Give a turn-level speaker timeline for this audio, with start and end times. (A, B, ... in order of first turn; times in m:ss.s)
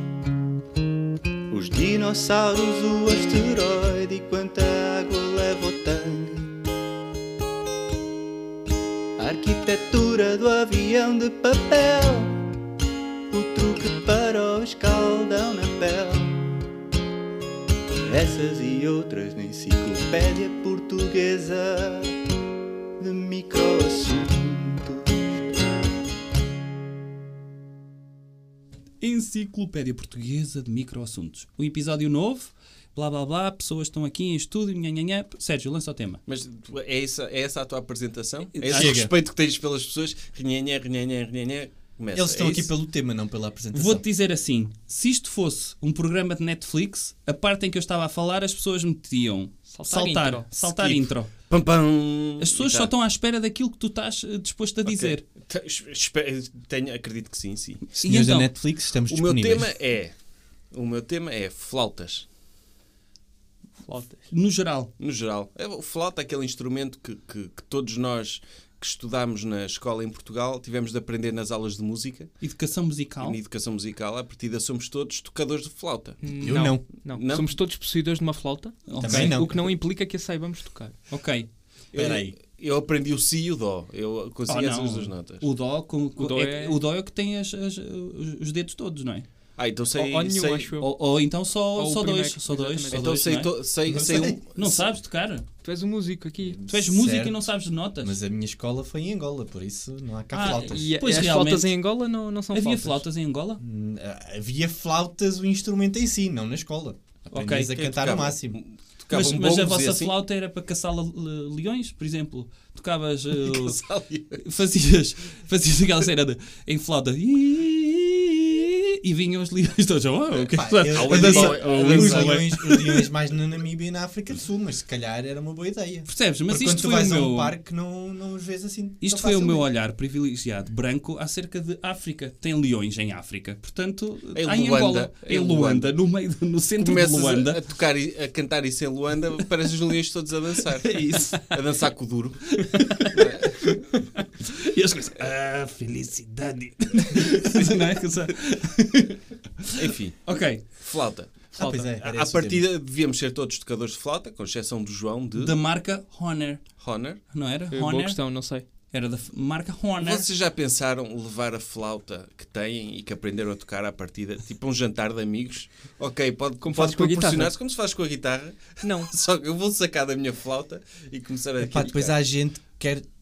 0:01.5-0:06.7 A
0:09.2-0:12.6 A
0:13.3-0:16.7 A
0:17.9-0:22.2 A
0:23.0-0:25.6 A
0:29.0-0:36.2 B
0:36.3-0:42.7 C
0:38.5-0:39.0 B
0:38.7-0:39.1 D
0:42.1-0:44.0 D
0:43.7-0:51.3 B
0:49.7-0:50.5 E
0:50.5-0:52.9 C
0:52.4-0:55.2 B
0:54.8-0:57.8 C
0:57.9-0:58.5 B
0:58.0-0:59.7 D
0:59.1-1:00.1 C
1:00.7-1:02.2 C
1:03.8-1:04.3 E
1:04.3-1:04.9 B
1:05.0-1:12.3 C
1:12.4-1:13.4 B
1:13.2-1:16.2 C
1:16.2-1:20.9 E
1:16.3-1:16.8 D
1:17.1-1:17.5 C
1:18.9-1:19.4 B
1:19.0-1:19.6 D
1:21.1-1:21.5 B
1:21.9-1:25.4 C
1:21.9-1:22.3 D
1:24.5-1:29.3 B
1:26.2-1:26.8 E
1:29.6-1:30.7 C
1:29.9-1:30.9 E
1:30.8-1:33.5 B
1:31.7-1:33.2 E
1:32.9-1:34.7 C
1:33.0-1:34.8 D
1:34.5-1:35.4 B
1:35.6-1:36.6 E
1:36.4-1:41.0 D
1:36.7-1:38.2 B
1:40.3-1:41.9 B
1:40.4-1:43.0 E
1:42.5-1:43.6 B
1:43.6-1:48.6 D
1:47.3-1:47.8 B
1:47.7-1:50.2 C
1:49.1-1:53.8 B
1:53.3-1:54.4 C
1:54.4-2:03.1 B
2:00.4-2:09.7 D
2:00.9-2:02.4 C
2:06.1-2:07.6 B
2:09.0-2:17.6 B
2:14.3-2:15.9 C
2:16.8-2:22.6 C
2:20.8-2:21.9 B
2:22.5-2:23.8 B
2:23.2-2:23.7 C
2:24.4-2:29.3 B
2:29.8-2:35.5 C
2:30.2-2:30.8 B
2:31.5-2:31.9 B
2:31.6-2:32.7 D
2:35.4-2:38.3 B
2:36.8-2:37.2 C
2:37.7-2:38.6 E
2:38.9-2:40.3 B
2:40.0-2:52.2 C
2:46.6-2:47.5 E
2:48.8-2:49.1 E
2:51.6-2:53.1 D